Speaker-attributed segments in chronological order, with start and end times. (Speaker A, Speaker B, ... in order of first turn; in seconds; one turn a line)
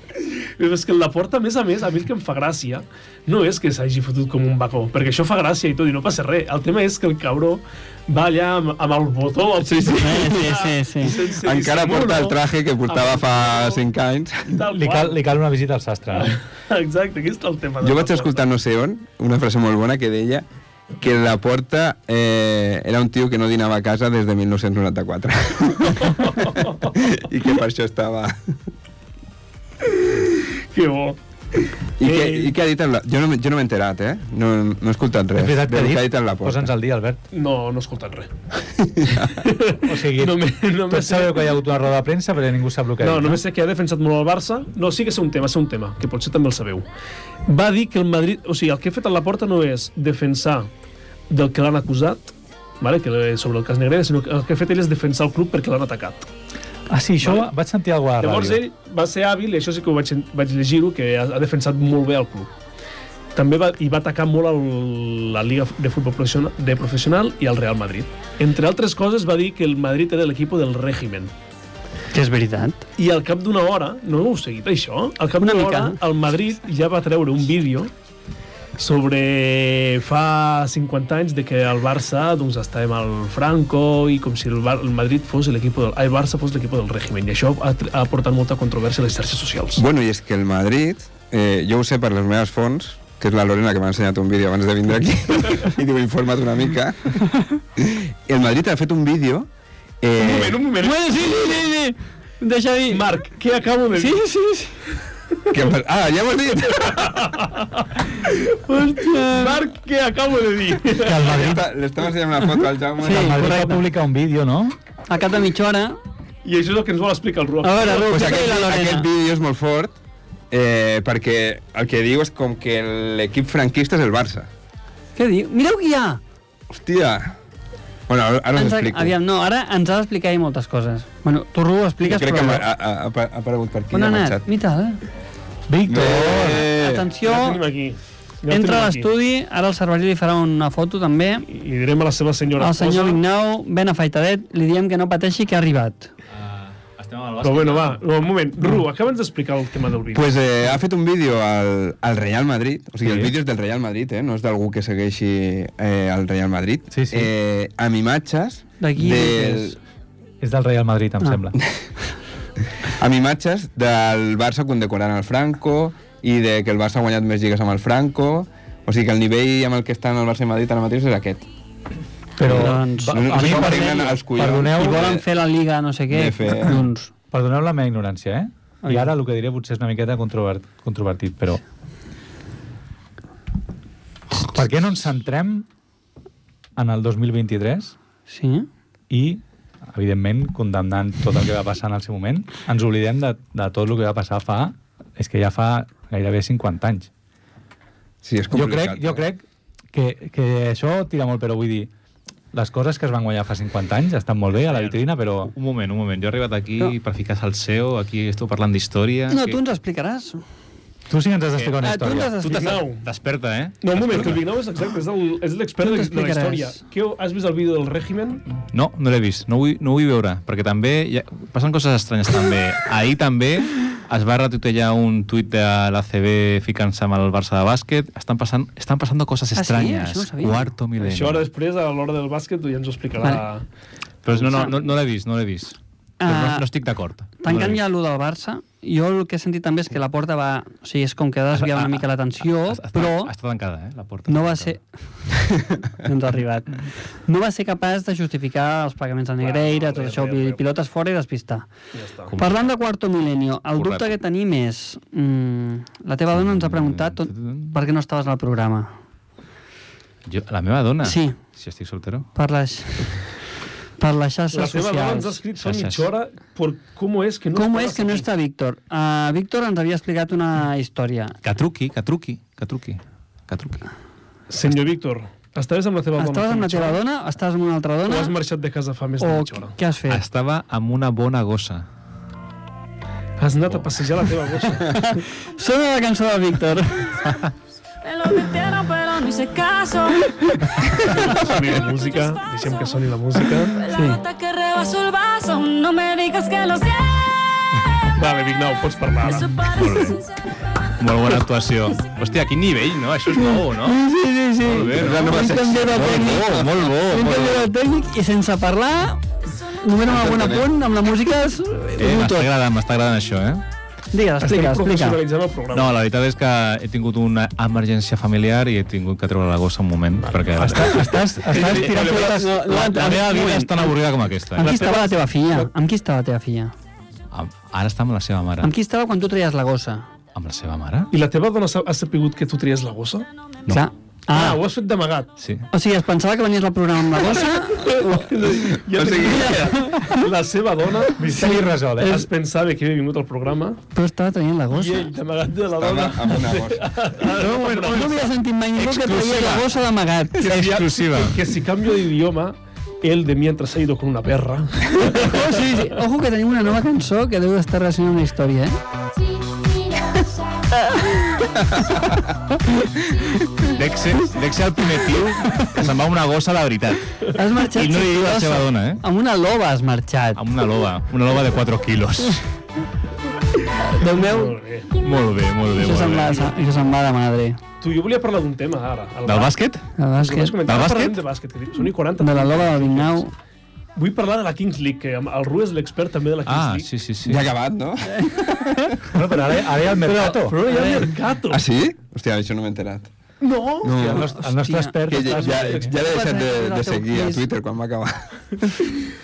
Speaker A: 0.1-13.8
Speaker B: 9.6-10.4
Speaker C: 10.0-11.2
Speaker B: 11.2-14.6
Speaker A: 14.5-15.3
Speaker D: 14.7-16.4
Speaker A: 16.1-18.4
Speaker B: 17.8-20.4
Speaker B: 21.0-28.5
Speaker A: 26.0-26.9
Speaker A: 29.9-31.2
Speaker B: 32.0-36.7
Speaker A: 32.0-32.5
Speaker D: 35.4-37.2
Speaker A: 37.3-38.3
Speaker B: 38.8-39.4
Speaker A: 39.4-41.6
Speaker D: 39.8-43.4
Speaker A: 43.0-46.9
Speaker A: 47.5-50.7
Speaker A: 51.3-56.3
Speaker D: 56.9-58.6
Speaker A: 57.2-57.5
Speaker A: 58.2-62.5
Speaker A: 63.3-71.3
Speaker C: 72.1-72.8
Speaker A: 73.0-77.9
Speaker C: 75.4-76.0
Speaker A: 78.8-89.8
Speaker B: 89.8-97.2
Speaker B: 97.8-99.5
Speaker B: 100.0-100.6
Speaker A: 100.2-101.5
Speaker C: 100.8-103.1
Speaker A: 102.9-104.2
Speaker C: 104.0-104.8
Speaker B: 105.5-107.3
Speaker A: 106.7-111.5
Speaker C: 108.7-109.6
Speaker D: 111.0-111.7
Speaker B: 111.2-113.5
Speaker C: 113.0-113.8
Speaker D: 113.0-114.8
Speaker C: 115.1-116.0
Speaker A: 116.4-118.5
Speaker C: 117.6-119.1
Speaker B: 118.0-119.9
Speaker B: 120.5-124.5
Speaker C: 125.2-126.2
Speaker B: 126.7-127.4
Speaker B: 128.1-129.1
Speaker C: 128.5-132.7
Speaker B: 132.0-134.4
Speaker C: 133.9-135.0
Speaker D: 135.7-136.7
Speaker B: 135.8-137.1
Speaker C: 136.4-137.6
Speaker A: 137.2-139.1
Speaker C: 138.5-141.4
Speaker A: 141.5-143.2
Speaker C: 142.6-146.1
Speaker E: 146.3-148.0
Speaker A: 147.4-150.3
Speaker B: 150.1-159.8
Speaker D: 153.0-153.3
Speaker D: 156.9-157.3
Speaker C: 158.8-159.7
Speaker D: 160.4-161.6
Speaker B: 162.9-171.5
Speaker D: 172.4-175.2
Speaker B: 172.4-175.2
Speaker C: 172.4-177.1
Speaker B: 176.1-176.8
Speaker D: 177.3-181.6
Speaker C: 178.8-179.1
Speaker D: 184.4-185.7
Speaker D: 186.8-187.9
Speaker C: 188.3-188.7
Speaker D: 189.1-197.1
Speaker B: 198.2-199.2
Speaker D: 198.5-201.9
Speaker D: 202.5-205.5
Speaker E: 204.6-209.6
Speaker C: 209.3-210.4
Speaker D: 211.1-212.3
Speaker C: 211.8-212.8
Speaker E: 212.4-214.4
Speaker A: 212.5-213.1
Speaker A: 213.8-218.4
Speaker C: 215.8-216.8
Speaker E: 218.7-231.5
Speaker C: 229.5-230.7
Speaker A: 231.0-233.6
Speaker E: 234.2-237.8
Speaker A: 234.3-234.7
Speaker C: 236.2-236.7
Speaker C: 237.4-243.3
Speaker E: 241.5-244.8
Speaker C: 244.3-244.8
Speaker C: 246.0-251.7
Speaker A: 249.4-250.6
Speaker A: 251.9-252.3
Speaker E: 252.3-252.7
Speaker C: 252.3-258.9
Speaker E: 253.8-254.1
Speaker E: 256.3-257.8
Speaker E: 260.2-262.3
Speaker C: 261.0-261.4
Speaker C: 262.4-263.1
Speaker C: 264.0-265.4
Speaker A: 264.5-268.2
Speaker E: 265.6-266.1
Speaker C: 267.5-271.4
Speaker E: 271.4-273.9
Speaker A: 274.5-277.0
Speaker C: 276.2-278.3
Speaker A: 278.1-279.8
Speaker C: 279.2-280.2
Speaker E: 280.1-281.9
Speaker A: 283.4-285.0
Speaker C: 284.8-287.3
Speaker E: 287.2-287.5
Speaker F: 288.0-290.4
Speaker A: 291.0-293.8
Speaker F: 291.4-292.9
Speaker F: 293.7-297.3
Speaker C: 293.9-294.2
Speaker A: 298.1-299.6
Speaker F: 299.2-300.3
Speaker E: 299.7-300.2
Speaker E: 301.0-304.0
Speaker C: 303.4-309.2
Speaker E: 304.6-307.7
Speaker B: 304.9-306.8
Speaker C: 309.8-312.5
Speaker B: 310.0-310.7
Speaker E: 312.0-313.6
Speaker C: 314.1-315.2
Speaker A: 314.4-315.9
Speaker E: 315.7-325.0
Speaker A: 320.3-322.6
Speaker D: 320.6-322.6
Speaker C: 320.8-324.0
Speaker C: 324.5-326.7
Speaker A: 324.6-325.7
Speaker E: 327.3-328.7
Speaker C: 328.6-330.1
Speaker E: 330.3-331.1
Speaker A: 331.1-333.3
Speaker C: 333.7-334.6
Speaker A: 334.3-335.3
Speaker E: 335.4-335.6
Speaker C: 335.7-338.6
Speaker A: 337.2-343.8
Speaker B: 338.9-339.8
Speaker C: 339.2-340.2
Speaker D: 341.2-342.2
Speaker C: 341.3-342.3
Speaker C: 343.9-345.1
Speaker A: 344.7-348.2
Speaker B: 345.7-346.9
Speaker C: 347.3-350.8
Speaker E: 348.8-349.7
Speaker E: 350.4-351.4
Speaker A: 350.4-355.9
Speaker C: 354.9-358.8
Speaker E: 363.6-369.0
Speaker C: 367.3-370.4
Speaker E: 370.4-372.4
Speaker C: 373.8-374.6
Speaker A: 374.0-375.0
Speaker E: 375.0-376.5
Speaker C: 375.7-377.6
Speaker A: 377.8-379.6
Speaker E: 379.2-379.9
Speaker C: 380.0-380.6
Speaker A: 380.2-383.2
Speaker E: 380.6-381.2
Speaker C: 382.2-383.3
Speaker A: 383.9-386.9
Speaker E: 386.4-387.5
Speaker B: 387.2-389.0
Speaker C: 388.1-388.9
Speaker D: 389.1-390.6
Speaker A: 390.0-391.6
Speaker C: 390.6-391.1
Speaker B: 391.5-393.1
Speaker A: 393.4-394.2
Speaker B: 393.8-394.3
Speaker D: 394.0-395.9
Speaker C: 394.1-397.5
Speaker B: 395.1-398.8